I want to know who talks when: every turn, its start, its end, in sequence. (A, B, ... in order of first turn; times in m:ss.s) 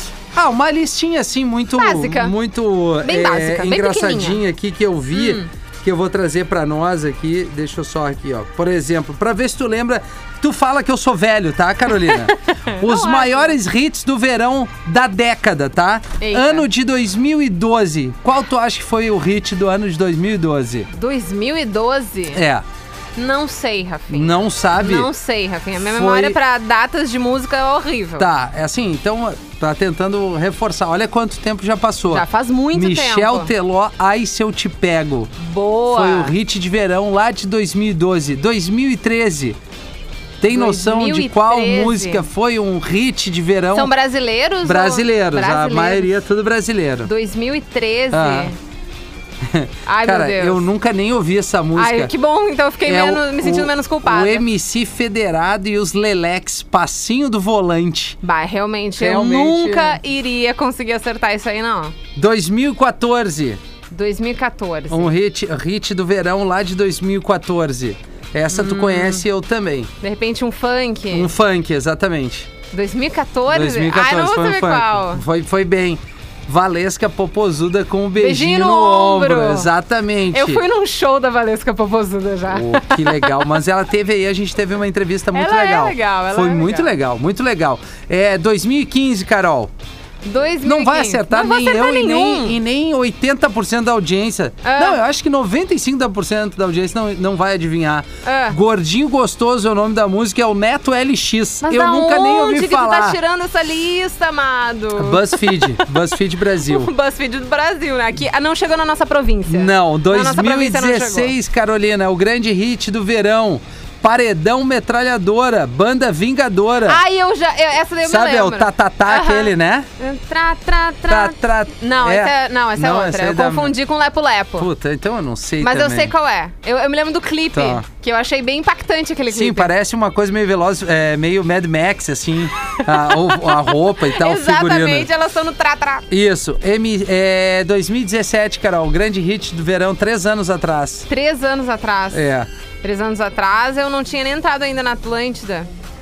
0:00.3-0:20.9 A
0:01.8-0:02.3 B
0:03.0-0:04.4 B
0:05.1-0:05.5 B
0:12.1-0:13.6 B
0:16.2-0:16.7 B
0:20.9-0:22.4 B
0:22.3-0:22.6 A
0:23.2-0:28.3 B
0:24.1-0:25.1 A
0:25.9-0:26.4 A
0:28.2-0:35.3 A
0:32.1-0:33.5 B
0:35.4-0:36.4 B
0:35.9-0:39.6 A
0:40.4-0:43.9 A
0:40.5-0:42.2 B
0:43.7-0:46.2 B
0:44.6-0:47.1 A
0:47.1-0:48.6 B
0:48.1-0:48.5 A
0:49.4-0:52.1 A
0:49.9-0:50.6 B
0:51.8-0:54.4 B
0:52.9-0:58.2 A
0:58.2-1:02.0 B
0:59.0-1:00.0 A
1:02.2-1:03.6 A
1:03.9-1:05.1 B
1:04.9-1:09.9 A
1:08.5-1:09.2 B
1:10.0-1:11.3 B
1:11.1-1:12.5 A
1:12.7-1:15.2 B
1:13.5-1:20.6 A
1:18.2-1:19.7 B
1:20.3-1:23.4 B
1:22.5-1:29.7 A
1:25.3-1:26.9 B
1:30.2-1:32.6 B
1:30.6-1:43.2 A
1:34.6-1:35.0 B
1:38.2-1:38.6 B
1:41.6-1:45.8 B
1:45.0-1:46.9 A
1:46.6-1:51.3 B
1:49.5-1:57.0 A
1:56.9-2:04.7 B
1:58.0-1:59.9 A
2:01.1-2:03.8 A
2:04.6-2:06.1 A
2:05.6-2:09.7 B
2:07.5-2:07.8 A
2:09.3-2:15.1 A
2:12.8-2:16.0 B
2:16.1-2:21.1 A
2:21.1-2:22.2 B
2:22.1-2:22.5 A
2:22.8-2:25.7 B